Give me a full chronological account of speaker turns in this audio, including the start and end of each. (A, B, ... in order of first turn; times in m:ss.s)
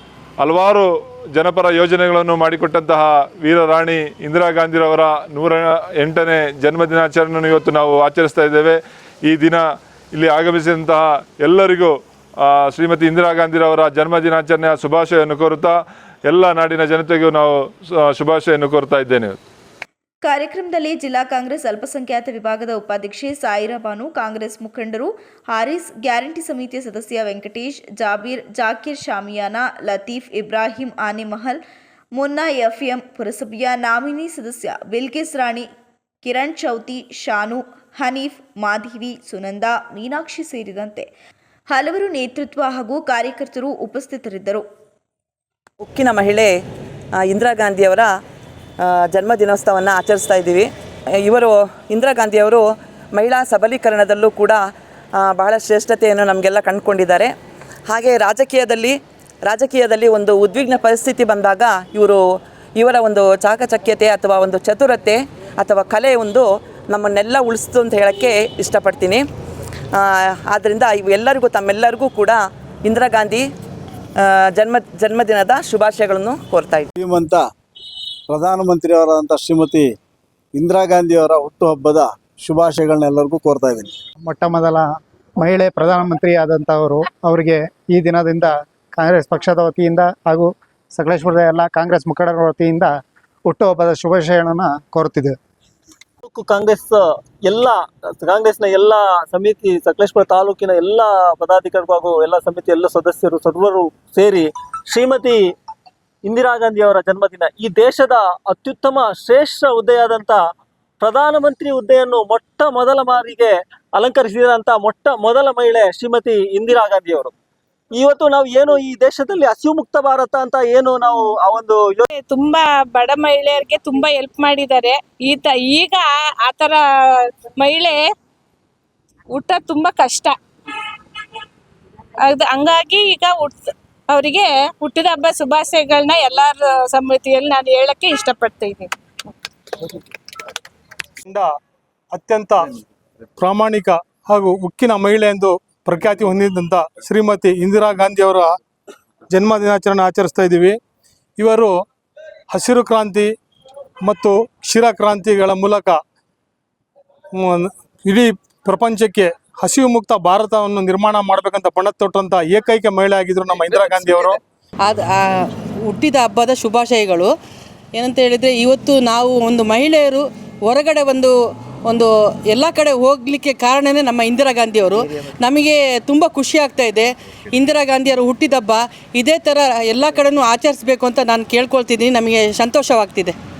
0:00.4-0:09.6 A
0:10.1-0:19.4 A
0:20.2-0:31.6 B
0:32.1-0:35.7 B
0:36.2-0:41.1 B
0:41.7-0:44.6 B
0:45.8-0:46.6 C
0:47.2-0:48.1 C
0:48.8-0:54.6 C
0:55.2-0:57.3 C
0:57.9-1:02.2 C
1:02.8-1:09.2 C
1:09.9-1:13.5 C
1:14.2-1:16.9 C
1:17.0-1:17.4 D
1:18.3-1:19.9 D
1:20.5-1:23.9 D
1:24.2-1:24.9 E
1:25.4-1:32.9 E
1:33.5-1:35.3 E
1:36.3-1:37.0 F
1:37.5-1:45.4 F
1:46.3-1:50.4 F
1:51.0-1:57.3 F
1:58.0-2:02.0 F
2:02.4-2:06.7 G
2:07.6-2:08.0 G
2:09.3-2:10.3 G
2:12.3-2:18.9 G
2:21.2-2:21.5 H
2:22.1-2:22.7 H
2:23.4-2:28.5 H
2:29.3-2:30.8 H
2:31.4-2:31.7 H
2:32.5-2:33.3 H
2:34.0-2:36.0 H
2:37.4-2:44.4 H
2:44.8-2:47.3 I
2:47.9-2:51.3 I
2:51.8-3:03.4 I